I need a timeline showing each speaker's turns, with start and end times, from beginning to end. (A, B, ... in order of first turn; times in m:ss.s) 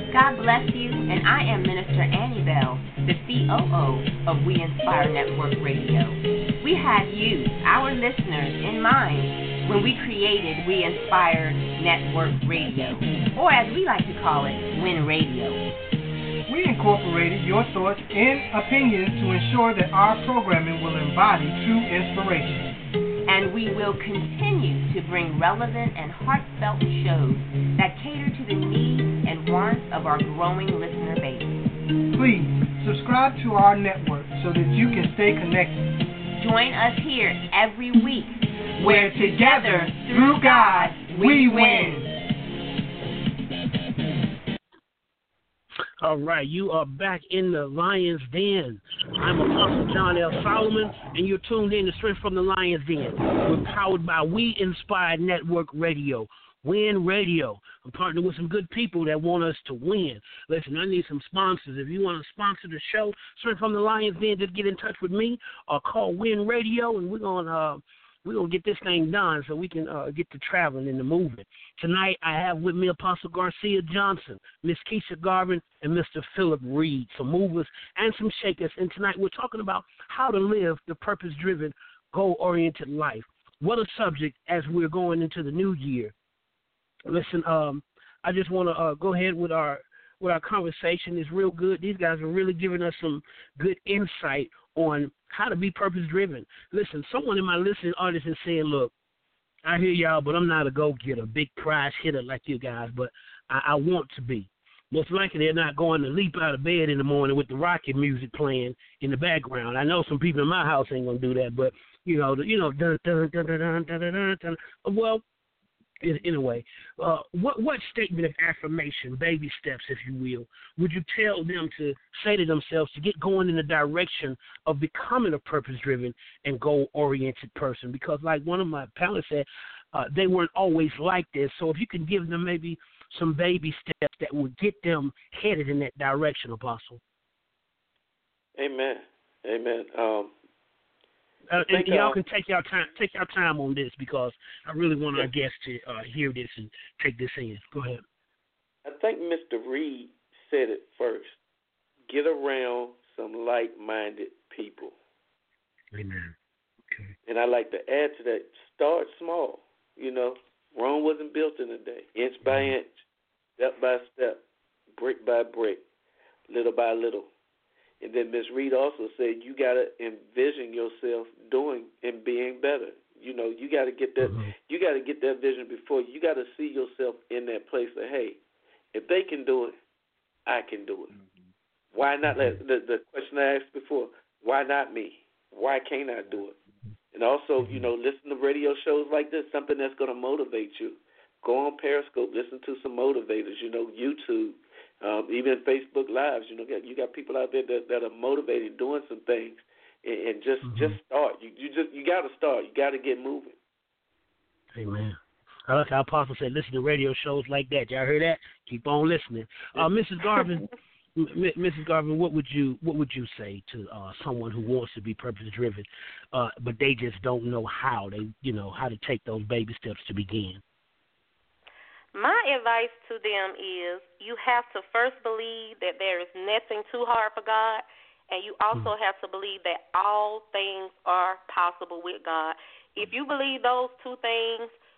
0:00.1-0:15.6 A
0:16.5-0:22.6 B
0:23.2-0:31.6 A
0:32.1-0:35.8 B
0:36.3-0:42.0 A
0:38.8-0:42.1 B
0:46.0-1:26.1 C
1:27.1-1:38.9 C
1:39.6-1:55.2 C
1:56.0-2:17.0 C
2:18.6-2:20.3 D
2:21.5-2:28.0 C
2:21.6-2:22.2 D
2:28.8-2:31.4 D
2:32.1-2:34.9 D
2:35.9-2:36.3 C
2:37.2-2:42.9 D
2:42.4-2:42.7 C
2:43.6-2:44.4 D
2:44.9-2:45.8 D
2:46.5-2:47.3 D
2:48.0-2:58.4 D
2:54.2-2:54.5 C
2:58.9-2:59.8 D
3:00.4-3:01.1 D
3:01.9-3:06.5 D
3:02.3-3:02.6 C
3:07.1-3:23.6 D
3:20.6-3:21.0 C
3:24.8-3:40.6 C
3:42.1-3:54.7 E